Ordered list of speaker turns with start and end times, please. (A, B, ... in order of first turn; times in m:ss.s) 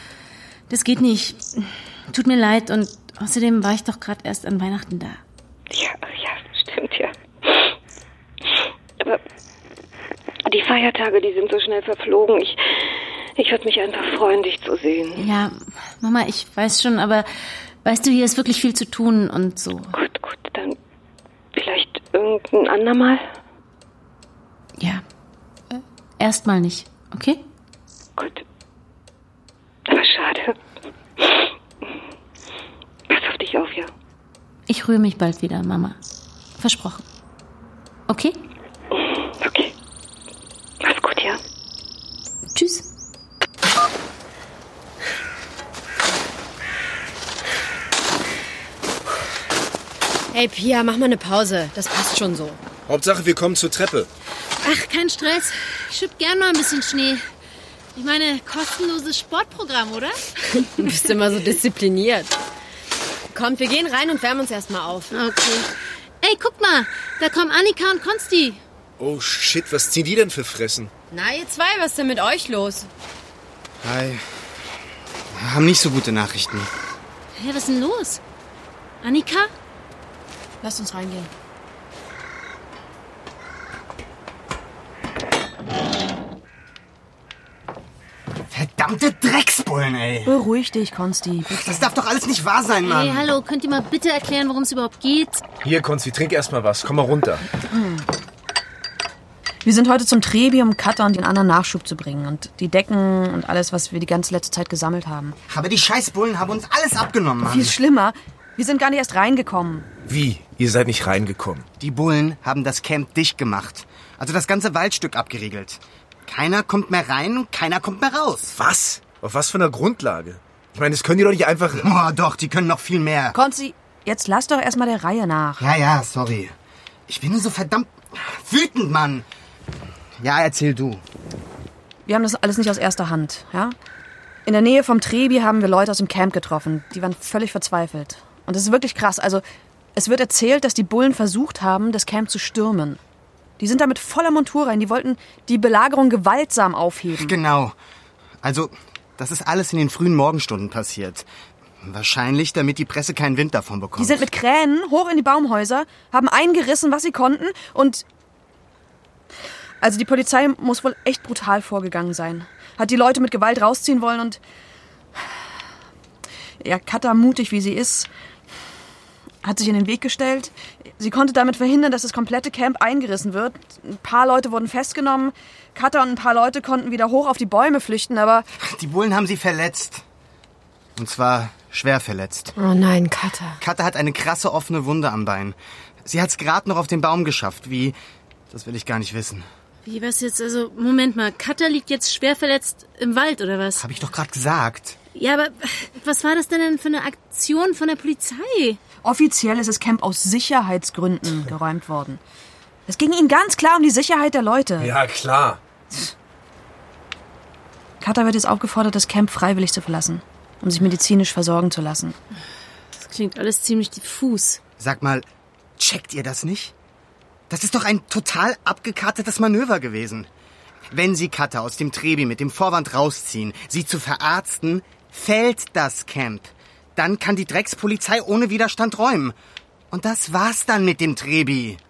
0:00.7-0:05.2 A
0:05.7-0:07.7 B
0:10.5-0:12.8 B
0:13.4-0:15.2 B
0:15.2-0:17.3 A
0:17.8-0:20.0 A
0:19.9-0:20.8 B
0:21.5-0:23.3 B
0:24.8-0:25.0 A
0:25.7-0:27.4 A
0:28.2-0:28.4 B
0:29.9-0:30.6 B
0:31.2-0:31.5 B
0:33.1-0:33.9 B
0:34.7-0:36.0 A
0:36.6-0:37.0 A
0:38.1-0:38.4 A
0:38.9-0:39.7 B
0:40.8-0:41.4 B
0:42.5-0:42.8 A
0:50.3-0:52.6 C
0:52.9-0:54.1 D
0:54.6-0:57.2 A
0:58.0-1:00.9 A
1:00.8-1:02.4 C
1:03.3-1:05.1 C
1:05.1-1:05.7 A
1:06.2-1:08.6 A
1:09.0-1:10.9 D
1:11.1-1:12.9 C
1:13.8-1:14.2 E
1:15.3-1:16.7 E
1:17.3-1:18.2 A
1:19.0-1:19.5 A
1:20.6-1:21.3 F
1:28.5-1:30.4 E
1:30.2-1:31.9 F
1:31.6-1:33.3 E
1:32.8-1:35.4 A
1:35.6-1:37.4 D
1:37.7-1:38.0 F
1:39.6-1:45.4 F
1:45.5-1:47.8 E
1:47.4-1:49.9 F
1:50.0-1:51.6 D
1:51.8-1:58.6 E
1:58.6-2:01.9 D
2:01.8-2:03.4 E
2:03.3-2:05.6 F
2:05.6-2:06.5 E
2:07.1-2:09.2 E
2:10.2-2:11.0 E
2:12.1-2:13.8 F
2:14.4-2:19.4 F
2:20.0-2:23.0 F
2:23.6-2:27.3 F
2:27.2-2:27.7 E
2:28.4-2:31.2 E
2:31.8-2:34.3 E
2:34.0-2:38.0 F
2:39.8-2:44.4 F
2:46.6-2:48.1 F
2:49.4-2:58.5 F
2:58.6-3:00.0 E
3:01.0-3:02.5 E
3:02.6-3:03.6 C
3:03.6-3:08.0 E
3:08.5-3:09.4 E
3:09.8-3:13.8 A
3:13.8-3:15.0 E
3:15.1-3:18.8 A
3:19.0-3:22.2 F
3:22.9-3:25.0 F
3:24.8-3:25.6 D
3:28.0-3:32.1 F
3:33.0-3:34.6 A
3:34.8-3:35.2 E
3:35.8-3:36.7 E
3:37.5-3:40.3 E
3:40.9-3:49.3 E
3:49.9-3:51.8 E